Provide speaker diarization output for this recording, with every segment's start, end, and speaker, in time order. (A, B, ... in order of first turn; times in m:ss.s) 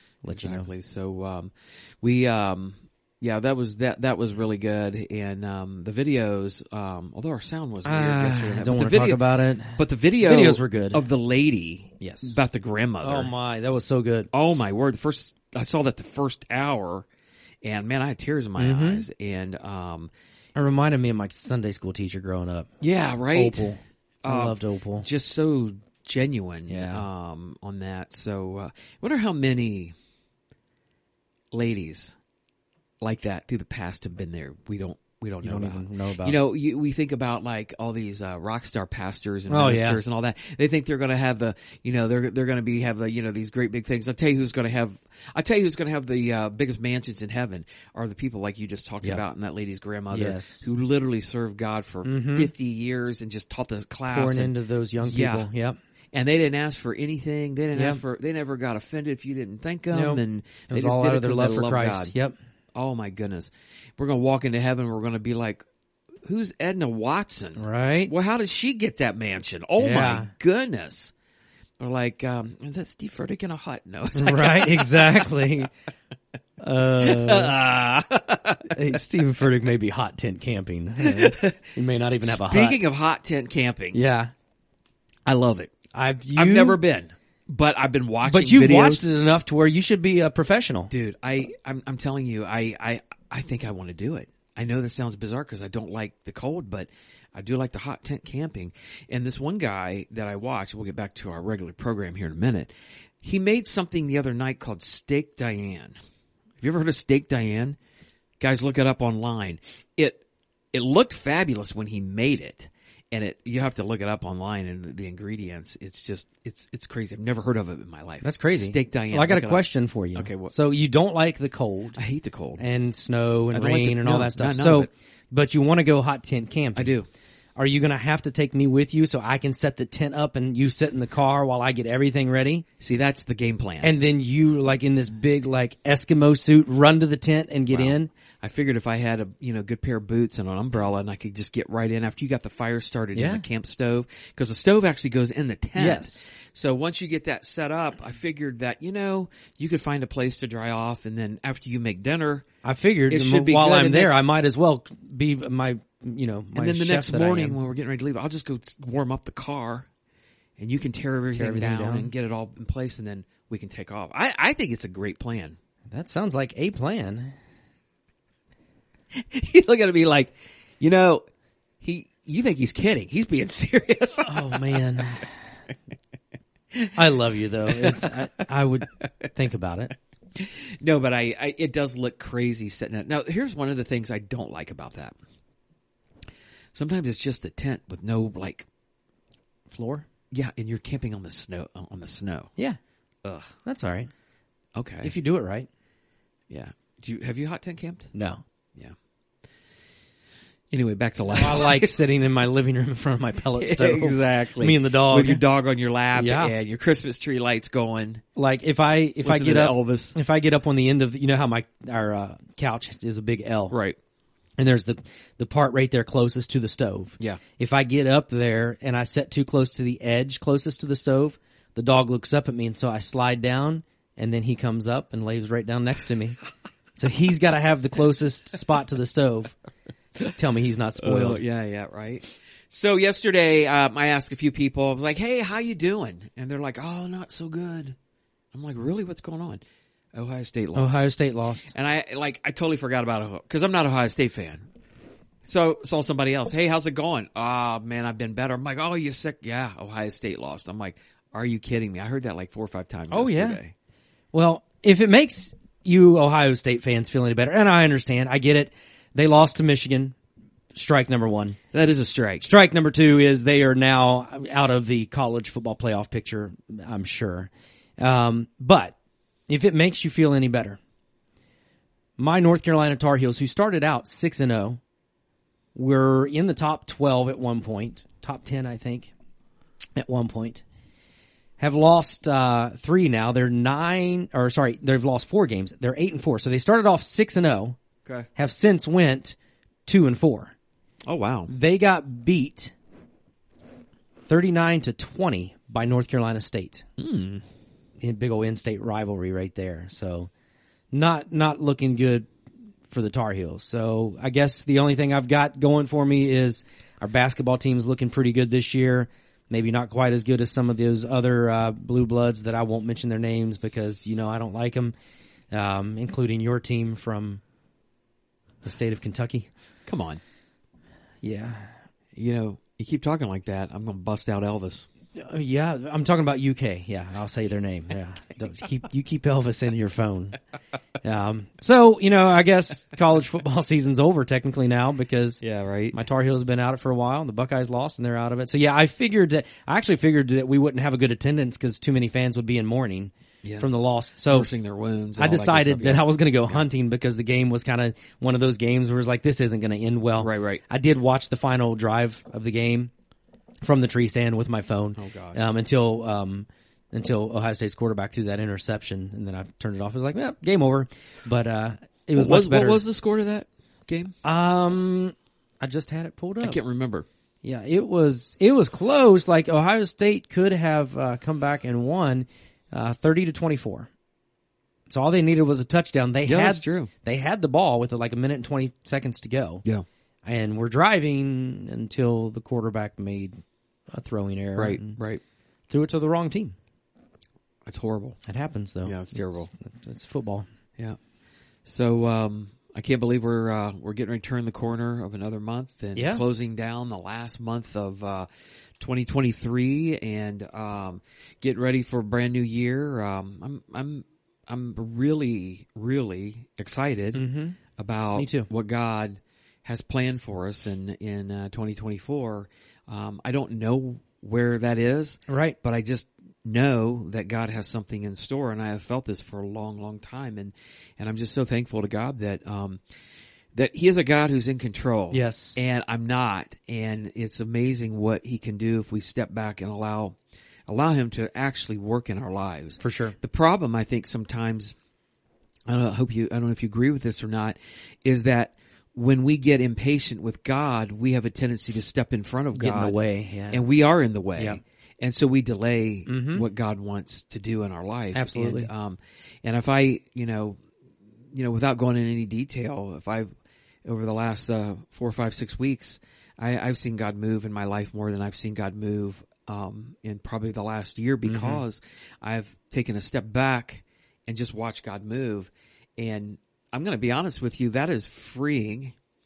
0:00.2-0:00.7 A
0:00.3-0:13.3 B
0:07.8-0:11.0 A
0:12.0-0:12.4 A
0:13.0-0:14.3 A
0:14.3-0:17.1 B
0:17.6-0:20.1 B
0:18.6-0:19.0 A
0:20.6-0:22.7 A
0:22.8-0:23.7 B
0:23.3-0:25.1 A
0:24.2-0:29.9 B
0:26.7-0:27.0 A
0:31.5-0:32.2 B
0:33.0-0:55.5 B
0:35.4-0:36.4 A
0:39.5-0:40.0 A
0:50.1-0:50.7 A
0:52.0-0:52.5 A
0:54.1-0:55.8 A
0:56.1-1:02.1 B
0:57.7-0:58.0 A
0:59.9-1:02.4 A
1:02.7-1:05.6 B
1:06.2-1:11.1 B
1:07.6-1:08.1 A
1:09.8-1:10.3 A
1:11.8-1:15.5 B
1:14.1-1:15.7 A
1:16.6-1:17.6 A
1:17.0-1:19.0 B
1:18.7-1:22.8 A
1:21.0-1:24.0 B
1:23.9-1:24.3 A
1:25.2-1:25.7 B
1:25.9-1:26.8 A
1:26.3-1:29.1 B
1:28.2-1:30.9 A
1:30.9-1:42.7 B
1:43.2-1:46.0 B
1:46.6-1:47.8 B
1:48.4-2:00.5 B
1:58.2-2:02.0 A
2:02.0-2:02.6 B
2:02.6-2:06.9 A
2:03.5-2:04.9 B
2:06.8-2:07.1 B
2:07.6-2:12.6 A
2:12.8-2:14.0 B
2:13.8-2:18.1 A
2:17.7-2:32.4 B
2:23.1-2:23.4 A
2:25.8-2:26.3 A
2:32.6-2:37.6 A
2:33.1-2:34.2 B
2:36.5-2:39.9 B
2:40.6-2:45.6 B
2:41.3-2:42.1 A
2:45.9-2:47.3 A
2:49.1-2:51.2 B
2:51.8-2:54.8 B
2:54.2-2:55.3 A
2:56.9-2:59.9 A
2:57.6-2:58.4 B
2:59.0-2:59.3 B
3:00.4-3:05.2 B
3:06.7-3:08.7 B
3:09.7-3:10.0 A
3:10.3-3:12.5 B
3:13.2-3:13.6 B
3:13.6-3:14.1 A
3:14.8-3:15.1 B
3:15.0-3:15.7 A
3:16.5-3:18.1 B
3:18.1-3:18.4 A
3:20.7-3:22.0 B
3:21.3-3:25.4 A
3:23.6-3:28.2 B
3:26.1-3:26.5 A
3:28.4-3:33.7 A
3:29.2-3:30.2 B
3:33.7-3:34.0 B
3:34.6-3:46.4 A
3:47.0-3:49.6 A
3:50.3-3:51.4 A
3:51.0-3:58.0 B
3:58.5-3:59.6 B
4:00.1-4:01.1 B
4:00.7-4:01.7 A
4:01.7-4:04.6 B
4:05.4-4:13.7 B
4:13.1-4:13.6 A
4:14.3-4:20.1 A
4:20.7-4:21.6 A
4:21.7-4:22.5 B
4:22.4-4:28.9 A
4:29.5-4:30.8 A
4:32.2-4:34.8 A
4:35.7-4:39.1 A
4:40.0-4:40.6 A
4:41.6-4:47.8 A
4:48.4-4:50.5 A
4:51.0-4:51.5 B
4:51.5-4:52.7 A
4:54.2-4:56.8 A
4:57.0-4:57.4 B
4:58.0-5:00.3 A
5:00.9-5:02.3 A
5:02.9-5:14.9 A
5:15.5-5:17.4 A
5:18.6-5:19.5 A
5:19.8-5:20.2 B
5:21.2-5:21.7 A
5:22.2-5:24.9 B
5:25.1-5:30.4 A
5:31.0-5:35.4 A
5:35.4-5:36.0 B
5:35.9-5:44.5 A
5:43.4-5:43.7 B
5:44.3-5:46.6 B
5:45.2-5:52.9 A
5:50.2-5:50.6 B
5:53.6-6:02.8 A
5:55.0-5:55.4 B
6:02.2-6:04.1 B
6:04.2-6:06.6 A
6:06.4-6:07.0 B
6:07.4-6:13.9 A
6:14.9-6:19.6 A
6:16.2-6:16.9 B
6:20.2-6:23.4 A
6:23.9-6:25.0 A
6:24.6-6:25.2 B
6:25.7-6:26.5 A
6:27.6-6:28.2 B
6:28.2-6:30.4 A
6:28.8-6:29.5 B
6:31.6-6:38.3 B
6:35.9-6:36.2 A
6:38.8-6:47.2 B
6:47.1-6:47.6 A
6:47.8-7:02.8 B
6:48.2-6:48.5 A
6:55.3-6:55.6 A
7:03.5-7:10.2 B
7:05.1-7:05.6 A
7:10.7-7:14.7 B
7:12.8-7:13.1 A
7:15.7-7:23.0 B
7:22.5-7:23.6 A
7:23.5-7:30.6 B
7:26.1-7:26.4 A
7:28.1-7:28.7 A
7:31.3-7:33.3 B
7:33.8-7:48.9 B
7:41.2-7:41.6 A